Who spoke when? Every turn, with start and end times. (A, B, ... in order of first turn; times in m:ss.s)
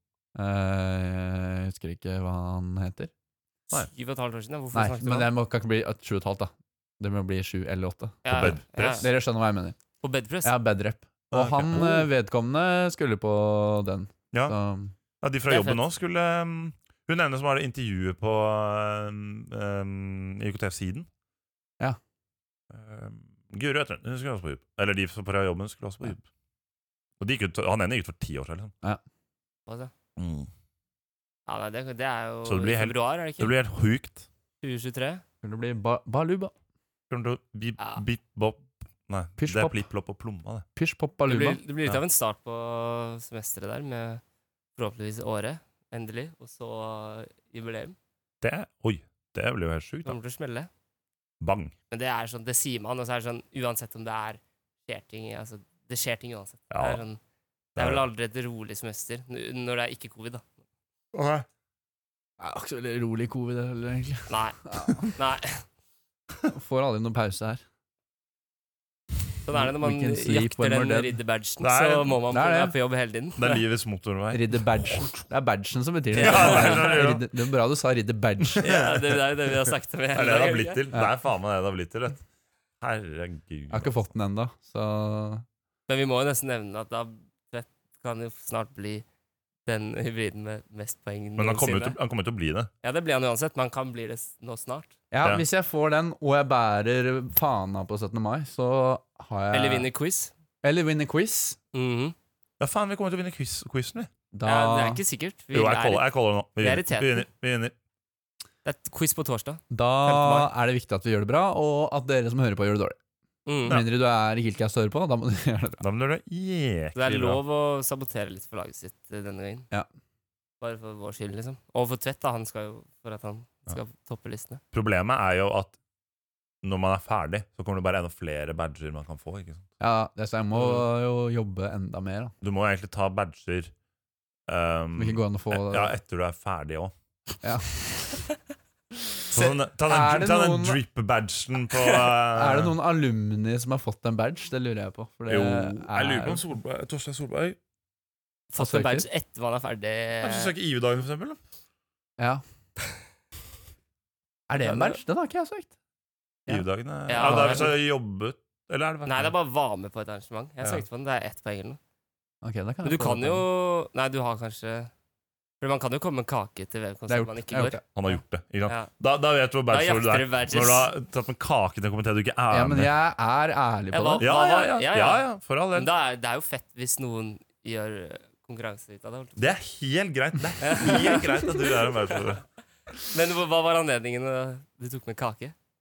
0:00.4-0:03.1 A
0:03.7-0:05.3 B
0:04.7-0:09.8 A
0:08.2-0:09.1 B
0:08.3-0:09.1 C
0:10.0-0:10.6 B
0:10.4-0:14.9 A
0:11.3-0:12.1 C
0:15.2-0:21.1 C
0:15.5-0:15.8 B
0:22.7-0:26.2 C
0:27.2-0:28.7 C
0:29.7-0:29.9 B
0:30.2-0:30.5 C
0:31.5-0:33.6 B
0:32.4-0:34.2 C
0:34.6-0:35.2 B
0:35.4-0:36.5 A
0:37.1-0:40.6 C
0:39.4-0:39.8 A
0:40.8-0:41.6 A
0:41.3-0:44.2 B
0:44.8-0:48.0 B
0:48.4-0:50.2 C
0:50.0-0:50.7 B
0:51.4-0:51.7 C
0:51.9-0:57.2 B
0:56.7-0:57.0 C
0:57.8-0:58.0 C
0:57.8-1:00.4 B
1:01.1-1:01.4 C
1:02.4-1:05.1 A
1:04.3-1:05.6 B
1:06.5-1:07.6 A
1:09.4-1:13.6 B
1:09.5-1:11.2 A
1:11.6-1:12.2 C
1:12.3-1:12.8 A
1:13.4-1:15.1 C
1:14.3-1:18.7 A
1:16.1-1:17.0 B
1:16.2-1:17.3 C
1:18.5-1:19.2 C
1:18.6-1:20.8 B
1:20.1-1:22.2 C
1:22.8-1:24.0 C
1:23.7-1:25.4 A
1:25.9-1:29.0 B
1:29.7-1:32.0 B
1:31.4-1:32.7 C
1:32.8-1:35.0 B
1:35.1-1:39.9 A
1:39.5-1:40.3 B
1:40.6-1:41.6 A
1:41.7-1:42.1 B
1:42.6-1:44.1 C
1:44.3-1:45.0 A
1:44.4-1:47.2 B
1:45.5-1:47.7 C
1:48.6-1:50.5 B
1:49.7-1:53.0 A
1:53.5-1:53.8 B
1:53.7-1:55.8 A
1:55.8-1:57.4 C
1:57.0-1:59.7 B
2:00.6-2:04.6 B
2:04.7-2:05.7 C
2:06.6-2:09.7 C
2:09.8-2:12.3 A
2:12.4-2:13.7 C
2:14.5-2:16.9 C
2:15.0-2:15.9 A
2:17.4-2:18.2 A
2:19.3-2:22.7 C
2:19.3-2:20.8 A
2:22.3-2:26.4 A
2:25.3-2:27.6 C
2:28.5-2:30.5 B
2:28.6-2:29.1 A
2:30.2-2:31.4 C
2:34.5-2:35.7 A
2:34.6-2:35.0 B
2:36.5-2:39.3 C
2:37.1-2:37.7 B
2:37.2-2:37.7 A
2:39.0-2:41.8 B
2:42.4-2:43.5 A
2:42.8-2:44.9 B
2:45.6-2:48.9 B
2:47.1-2:47.8 A
2:48.0-2:52.9 C
2:49.7-2:50.9 B
2:52.5-2:54.3 A
2:53.9-2:59.5 B
2:54.2-2:55.9 C
2:59.4-3:02.4 C
3:00.6-3:02.2 B
3:03.1-3:05.6 B